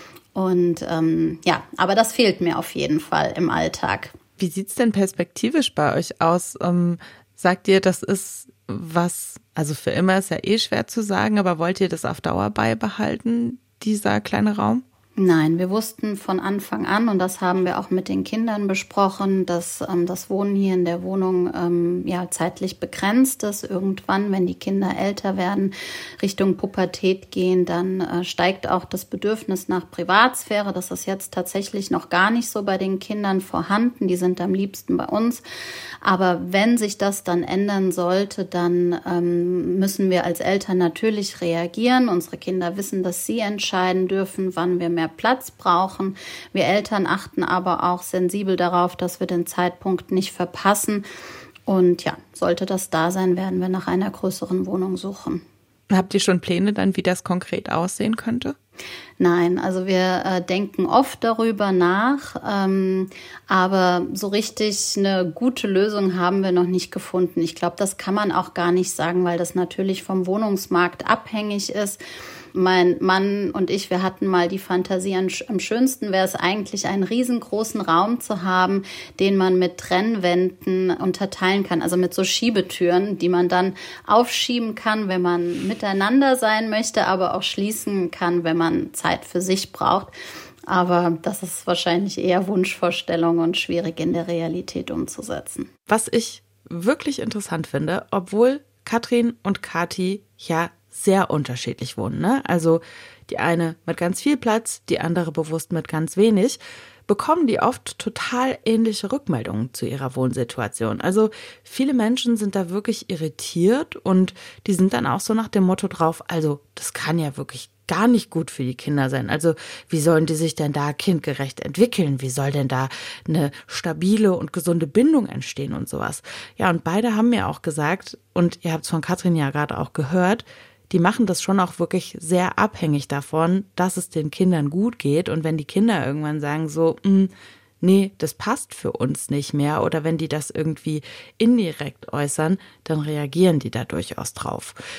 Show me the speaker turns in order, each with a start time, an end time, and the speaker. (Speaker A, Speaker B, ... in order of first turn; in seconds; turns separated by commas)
Speaker A: 0.3-4.1, Speaker B: 4.4-14.8, Speaker A: 15.2-35.4, Speaker A: 36.0-51.0, Speaker A: 51.6-55.4, Speaker B: 55.9-58.5, Speaker A: 59.2-72.0, Speaker A: 72.5-90.1, Speaker A: 90.7-95.7, Speaker B: 95.9-144.8